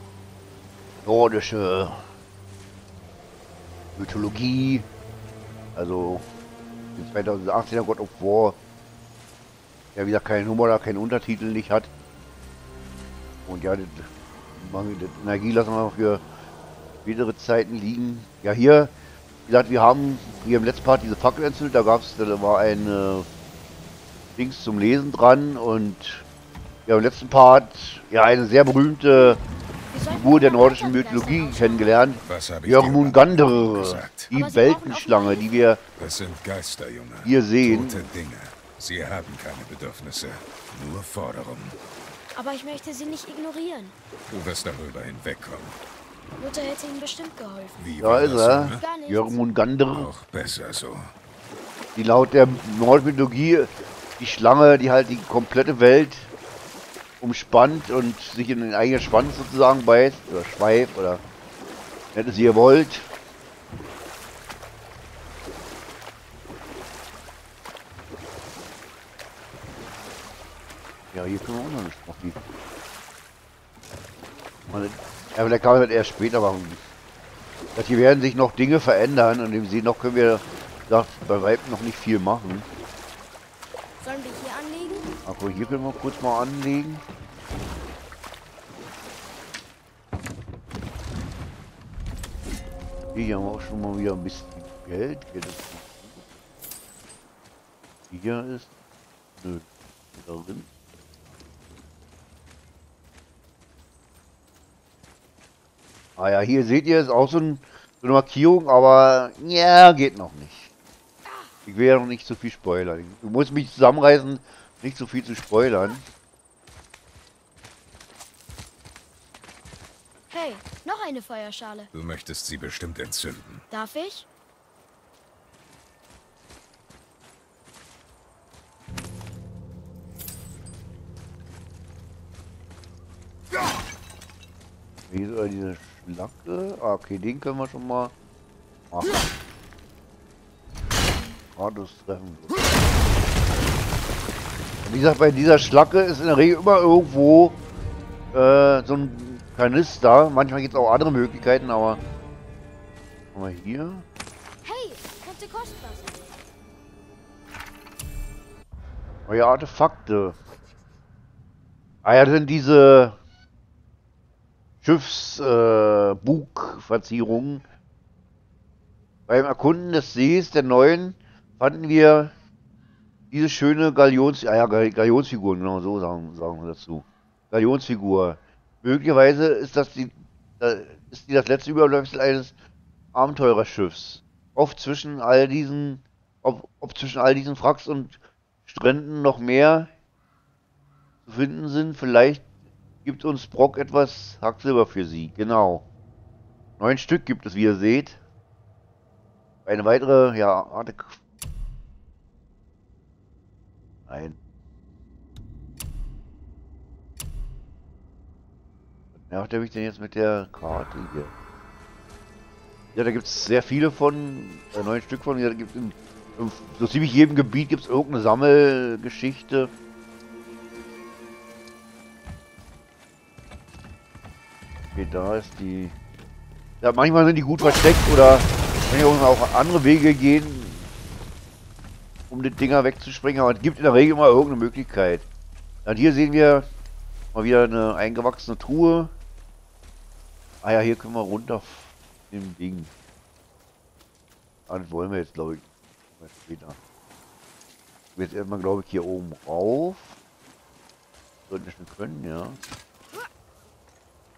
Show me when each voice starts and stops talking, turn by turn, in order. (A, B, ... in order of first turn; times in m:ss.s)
0:01.0-0:02.1 A
0:04.0-0:04.9 A
0:05.8-0:06.3 A
0:07.0-0:08.6 A
0:10.0-0:11.9 A
0:13.4-0:16.2 A
0:17.0-0:18.9 A
0:19.5-0:23.3 A
0:24.4-0:26.3 A
0:26.9-0:29.4 A
0:29.9-0:32.0 B
0:30.1-0:35.8 A
0:32.2-0:34.3 C
0:34.3-0:35.6 B
0:36.0-0:41.8 C
0:37.2-0:38.1 A
0:42.4-0:44.0 B
0:44.3-0:45.8 C
0:46.4-0:47.8 B
0:47.8-0:48.8 C
0:48.0-0:50.1 A
0:48.7-0:49.4 B
0:49.9-0:51.1 C
0:52.0-0:56.3 A
0:57.2-1:01.2 A
1:02.1-1:03.1 A
1:11.1-1:12.4 A
1:14.7-1:16.9 A
1:17.8-1:22.7 A
1:24.0-1:25.1 B
1:25.2-1:27.0 A
1:33.1-1:36.3 A
1:38.1-1:38.7 A
1:39.4-1:40.7 A
1:46.2-1:50.7 A
1:51.7-1:56.0 A
2:00.3-2:01.9 B
2:01.9-2:03.6 C
2:03.7-2:04.3 B
2:15.1-2:18.1 A
2:18.9-2:19.3 A
2:21.6-2:22.7 A
2:24.8-2:27.6 A
2:28.3-2:32.0 A
2:33.3-2:34.0 A
2:34.6-2:36.3 B
2:39.3-2:40.4 A
2:42.0-2:43.2 A
2:44.8-2:47.7 A
2:49.3-2:52.3 A
2:53.3-3:02.5 A
3:03.1-3:09.9 A
3:11.2-3:12.5 A
3:13.0-3:15.9 A
3:16.8-3:18.2 A
3:19.6-3:21.2 A
3:24.1-3:24.4 A
3:29.1-3:31.3 A
3:32.9-3:39.7 A
3:44.9-3:46.0 A
3:46.8-3:50.9 A
3:52.3-3:55.3 A
3:55.8-3:56.7 A
3:57.3-3:59.1 A
4:00.6-4:02.9 A
4:04.7-4:06.8 A
4:08.2-4:10.2 A
4:11.5-4:12.6 A